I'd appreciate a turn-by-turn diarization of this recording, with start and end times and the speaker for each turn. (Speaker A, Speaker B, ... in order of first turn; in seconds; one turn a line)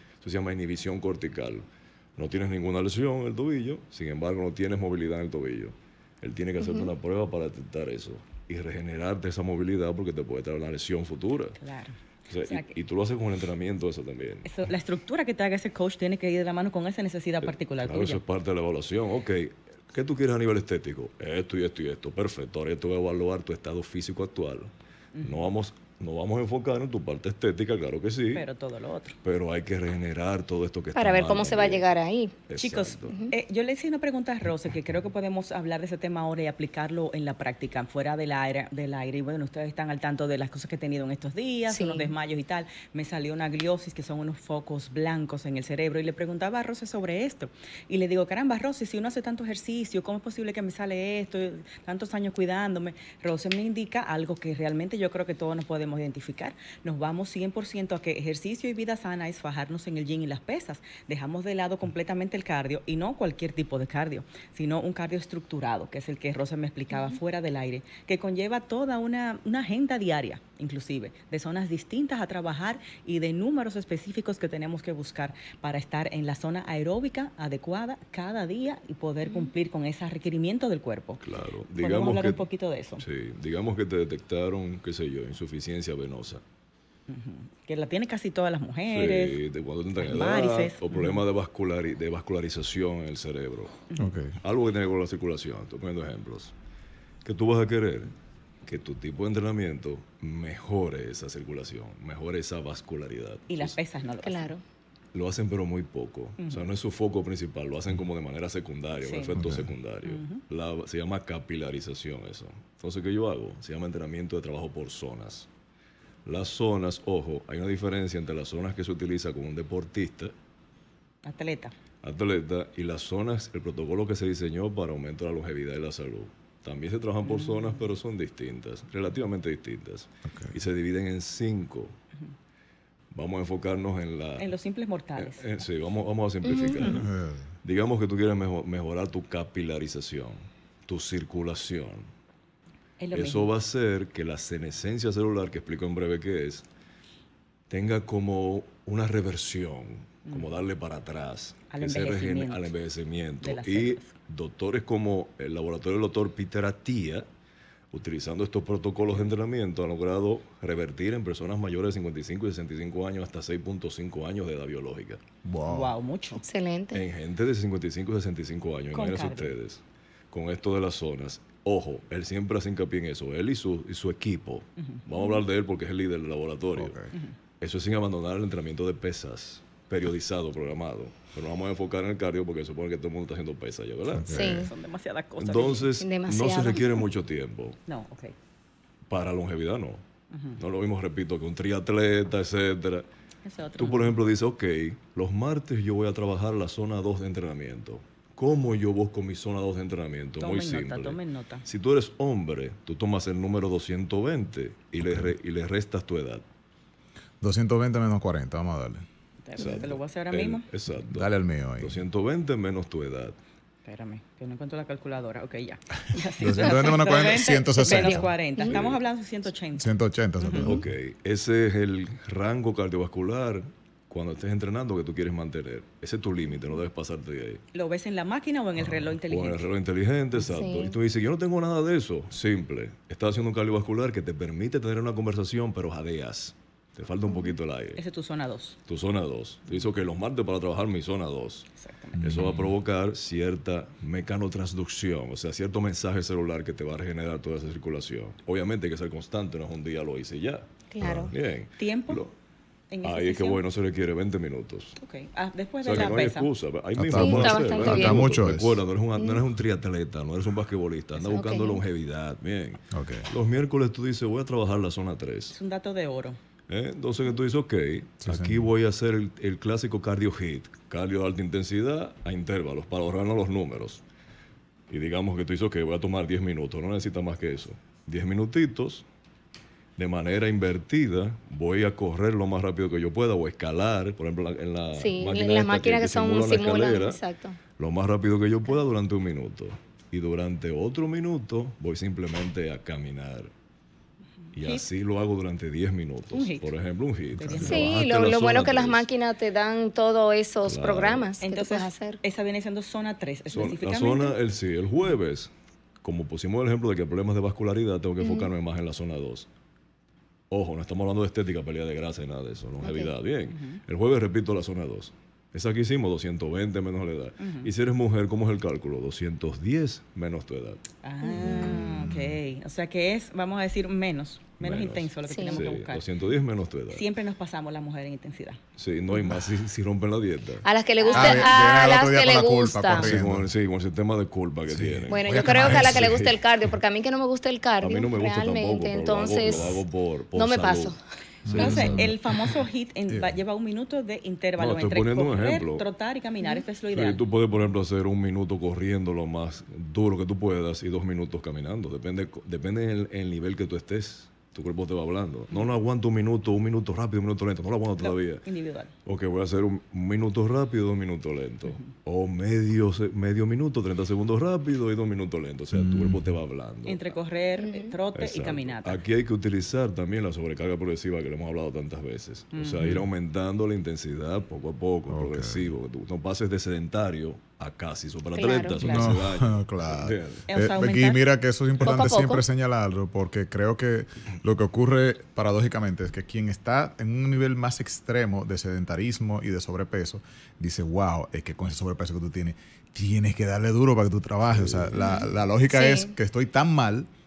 Speaker A: 0.2-11.6
Speaker B: 6.6-6.9
Speaker C: 11.6-12.7
Speaker A: 12.3-14.5
Speaker C: 14.4-18.2
Speaker A: 17.4-28.5
Speaker C: 25.1-25.4
Speaker C: 28.3-29.1
Speaker A: 29.2-31.9
Speaker B: 30.9-32.4
Speaker A: 32.5-33.2
Speaker C: 32.5-81.2
Speaker B: 33.1-33.3
Speaker B: 41.7-42.1
Speaker B: 79.2-79.5
Speaker A: 81.2-82.4
Speaker C: 81.7-83.0
Speaker A: 83.0-86.4
Speaker C: 87.1-89.4
Speaker A: 88.9-93.8
Speaker C: 90.0-91.2
Speaker D: 94.0-94.4
Speaker A: 94.4-96.5
Speaker A: 97.2-98.1
Speaker A: 98.6-103.8
Speaker C: 103.5-104.5
Speaker B: 104.2-104.6
Speaker A: 105.1-115.5
Speaker C: 106.4-106.7
Speaker C: 109.0-109.4
Speaker D: 109.4-109.7
Speaker C: 110.0-110.4
Speaker A: 116.2-120.3
Speaker C: 121.2-121.7
Speaker A: 122.0-131.9
Speaker C: 127.2-127.8
Speaker D: 130.2-130.5
Speaker A: 133.1-134.5
Speaker C: 134.4-135.6
Speaker A: 135.2-137.1
Speaker B: 136.4-136.8
Speaker D: 136.8-137.4
Speaker A: 137.6-142.1
Speaker C: 143.0-143.5
Speaker A: 143.1-146.6
Speaker A: 147.7-157.3
Speaker C: 151.7-152.7
Speaker C: 153.4-154.1
Speaker A: 157.9-165.2
Speaker D: 165.4-165.9
Speaker C: 165.6-166.4
Speaker B: 166.4-167.0
Speaker A: 166.9-177.0
Speaker C: 168.9-169.5
Speaker C: 174.8-175.1
Speaker D: 176.8-177.1
Speaker A: 177.6-184.4
Speaker D: 184.1-184.7
Speaker B: 184.3-184.7
Speaker C: 184.3-185.9
Speaker A: 185.4-187.8
Speaker B: 186.0-187.1
Speaker C: 187.9-188.3
Speaker A: 189.1-190.0
Speaker C: 190.3-190.6
Speaker A: 190.5-193.1
Speaker C: 193.4-194.1
Speaker A: 193.8-206.4
Speaker C: 200.4-201.6
Speaker D: 205.0-205.3
Speaker D: 207.4-209.0
Speaker C: 209.4-210.7
Speaker A: 209.6-213.4
Speaker D: 211.1-212.0
Speaker C: 213.8-220.7
Speaker D: 216.4-218.3
Speaker B: 217.7-218.7
Speaker A: 218.6-219.0
Speaker D: 219.8-220.8
Speaker A: 220.5-227.6
Speaker C: 227.7-229.7
Speaker A: 229.0-238.0
Speaker B: 230.4-230.9
Speaker C: 237.9-238.8
Speaker A: 238.9-241.7
Speaker C: 241.8-242.3
Speaker D: 242.1-242.7
Speaker A: 242.2-250.7
Speaker B: 250.9-251.3
Speaker D: 251.0-251.3
Speaker A: 251.3-252.3
Speaker C: 251.8-252.2
Speaker C: 252.9-253.6
Speaker A: 253.0-255.0
Speaker C: 255.0-256.5
Speaker A: 255.8-265.6
Speaker D: 256.9-258.8
Speaker B: 257.1-258.3
Speaker B: 259.2-259.4
Speaker B: 261.1-261.8
Speaker D: 262.9-263.3
Speaker C: 265.5-266.4
Speaker A: 266.7-274.0
Speaker D: 268.2-268.7
Speaker A: 274.9-279.0
Speaker A: 280.0-287.2
Speaker B: 284.9-287.6
Speaker A: 287.8-293.5
Speaker A: 294.5-299.1
Speaker C: 296.3-296.7
Speaker C: 297.4-297.9
Speaker D: 297.4-297.8
Speaker B: 297.6-302.2
Speaker A: 300.6-301.3
Speaker C: 301.4-304.4
Speaker A: 303.5-309.5
Speaker B: 308.2-308.5
Speaker A: 310.5-320.8
Speaker B: 312.8-313.1
Speaker C: 313.5-313.8
Speaker C: 317.4-317.7
Speaker C: 321.0-326.0
Speaker B: 321.2-322.1
Speaker D: 321.9-322.4
Speaker A: 324.6-327.0
Speaker B: 325.3-325.6
Speaker C: 326.9-328.6
Speaker A: 328.8-330.6
Speaker D: 329.1-329.5
Speaker B: 330.6-333.1
Speaker C: 331.0-331.6
Speaker D: 331.1-333.5
Speaker A: 332.9-336.4
Speaker D: 334.7-336.1
Speaker B: 335.1-339.8
Speaker A: 337.8-340.9
Speaker B: 340.3-341.0
Speaker D: 341.4-342.1
Speaker A: 341.4-342.2
Speaker C: 341.5-347.2
Speaker D: 343.1-343.4
Speaker A: 344.6-345.9
Speaker A: 346.9-358.4
Speaker C: 358.0-358.9
Speaker A: 359.0-367.2
Speaker D: 365.7-366.3
Speaker C: 366.9-369.0
Speaker B: 367.6-367.9
Speaker A: 368.1-380.5
Speaker C: 372.5-373.0
Speaker D: 375.1-375.7
Speaker B: 378.3-379.0
Speaker D: 378.8-397.1
Speaker C: 378.8-379.1
Speaker C: 380.5-381.2
Speaker B: 381.8-382.4
Speaker A: 394.5-395.0
Speaker B: 394.9-396.1